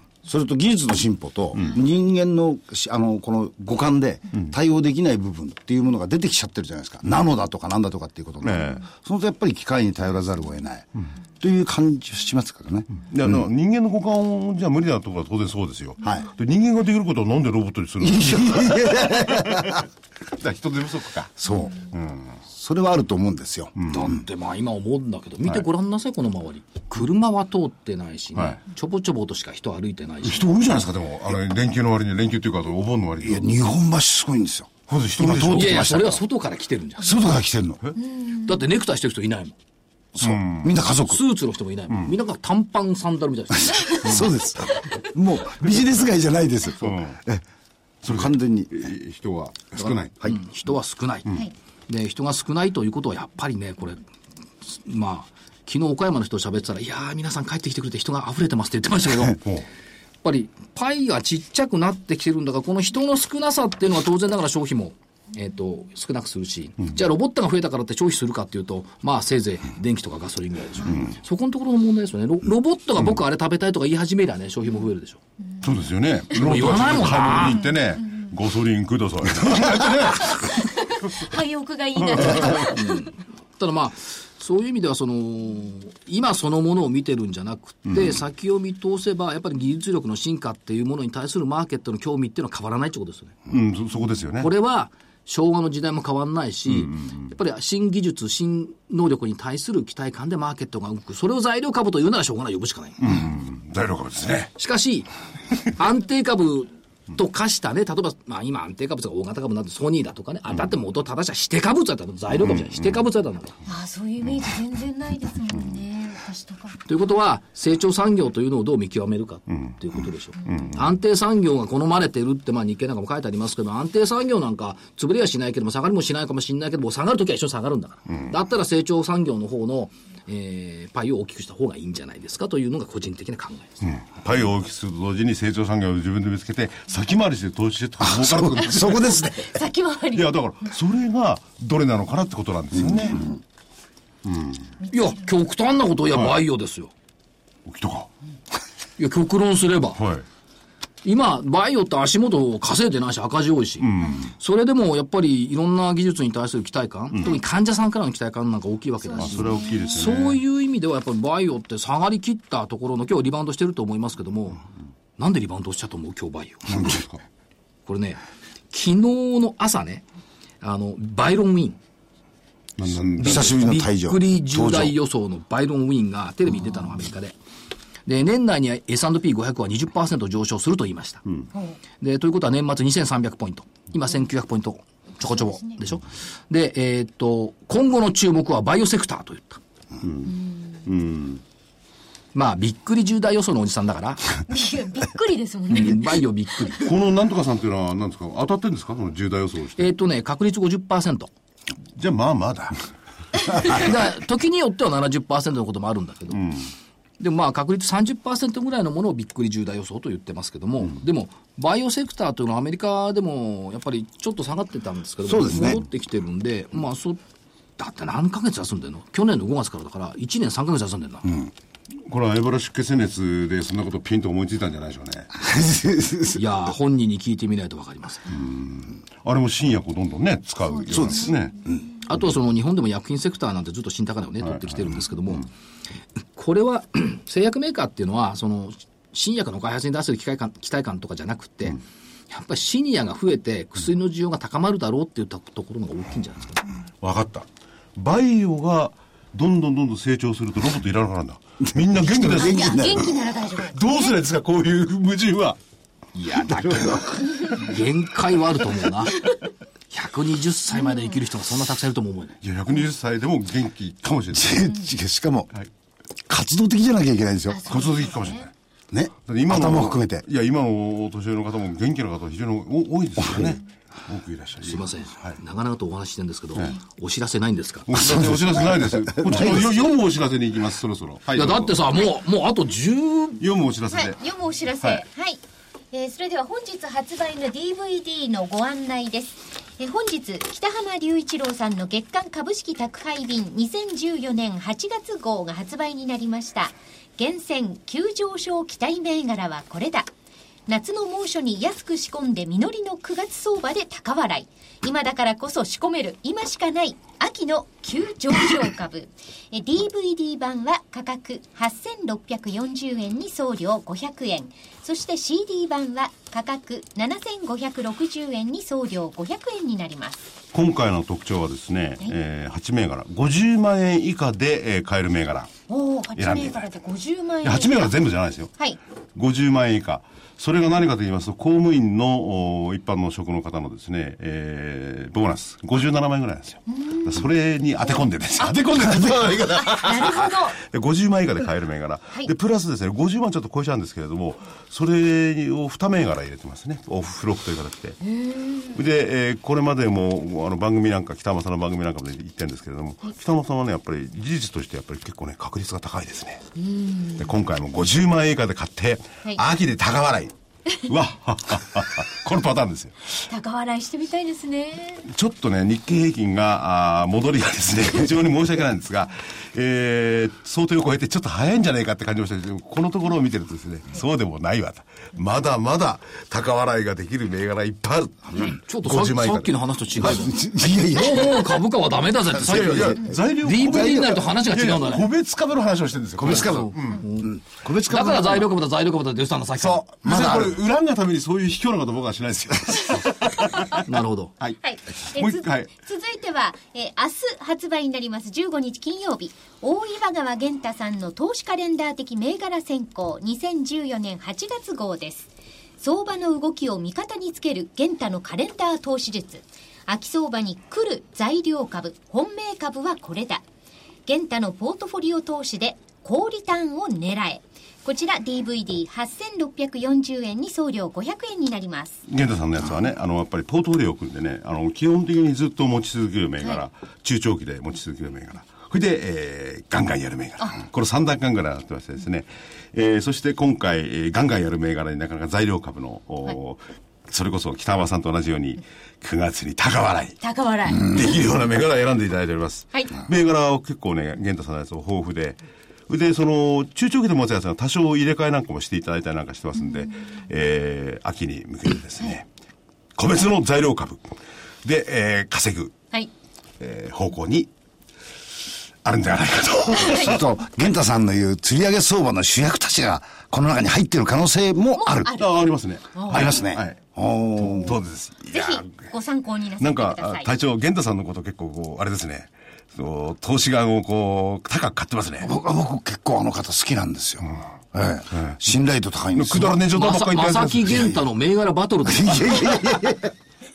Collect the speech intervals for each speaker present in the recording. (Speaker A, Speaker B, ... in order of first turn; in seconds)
Speaker A: 0.2-10.9, 11.4-12.9, 16.0-16.3, 18.0-19.9, 21.4-21.9, 22.4-23.8, 33.2-36.2, 37.0-37.8, 40.1-41.2, 43.8-47.4, 48.0-48.9, 138.0-139.6, 142.7-143.3, 173.2-174.9, 215.2-215.8, 225.4-226.4, 230.9-231.8, 251.6-253.1, 256.5-257.4, 264.3-265.5, 266.3-267.6, 268.9-270.2, 273.2-273.6, 278.0-279.8, 380.0-381.5, 382.3-383.2, 383.7-384.0, 386.1-388.5, 389.6-390.6, 459.7-465.1, 466.1-467.8, 475.2-479.6, 481.8-483.1
Speaker B: 8.4-8.8, 13.0-21.4, 21.9-22.4, 23.8-24.1, 30.2-33.6, 34.9-36.1, 40.2-40.8, 46.8-47.2, 48.0-50.3, 59.4-59.7, 70.8-71.1, 75.6-81.1, 82.0-82.6, 87.9-88.2, 93.5-94.5, 96.7-97.2, 103.0-104.5, 112.5-113.0, 114.2-114.5, 119.5-119.8, 120.4-120.8, 133.8-139.5, 140.1-143.3, 144.2-144.7, 147.7-148.1, 150.0-150.2, 153.8-154.3, 159.2-160.4, 166.7-167.1, 172.8-173.6, 190.0-191.4, 196.8-199.9, 202.0-202.8, 206.3-206.7, 222.1-225.3, 228.3-231.5, 234.4-235.4, 247.0-255.6, 262.4-264.7, 267.7-268.5, 269.2-275.4, 277.9-281.7, 283.4-284.2, 320.5-325.5, 326.1-326.7, 327.4-328.5, 329.1-348.0, 348.6-356.5, 357.1-363.3, 365.1-380.1, 382.4-387.0, 390.0-393.9, 394.4-395.7, 422.1-440.2, 440.8-452.3, 452.9-455.8, 456.6-457.5, 458.8-460.3, 465.1-466.8, 467.4-468.7, 469.6-475.3, 478.1-478.4, 479.1-481.0
Speaker C: 23.9-30.5, 35.5-37.2, 38.3-39.5, 41.0-44.3, 50.2-54.0, 54.6-59.4, 60.2-75.2, 76.3-77.6, 82.6-93.4, 94.4-103.2, 104.6-105.1, 105.6-113.6, 116.8-133.9, 144.9-146.9, 149.0-150.0, 151.0-164.6, 165.2-167.0, 167.8-170.0, 170.6-171.8, 173.2-177.3, 178.1-181.2, 182.0-189.6, 192.3-194.4, 195.7-196.9, 199.8-201.3, 203.5-206.5, 207.2-217.2, 217.8-221.4, 226.3-228.3, 232.1-235.5, 236.3-246.6, 256.1-259.2, 259.9-262.4, 274.6-277.9, 281.3-283.4, 378.4-385.1, 386.2-390.4, 393.8-394.3, 479.7-482.7
Speaker D: 80.6-83.0, 113.7-116.8, 139.5-140.3, 159.1-159.9, 194.5-196.1, 252.4-254.1, 267.5-268.4, 283.9-285.4, 285.9-300.1, 300.7-320.2, 325.7-327.9, 336.8-337.1, 339.6-340.6, 348.2-348.6, 356.6-357.2, 363.3-365.0, 394.6-413.4, 414.1-422.0, 440.2-441.2, 459.8-460.2, 464.8-465.3, 465.9-466.3, 468.3-470.3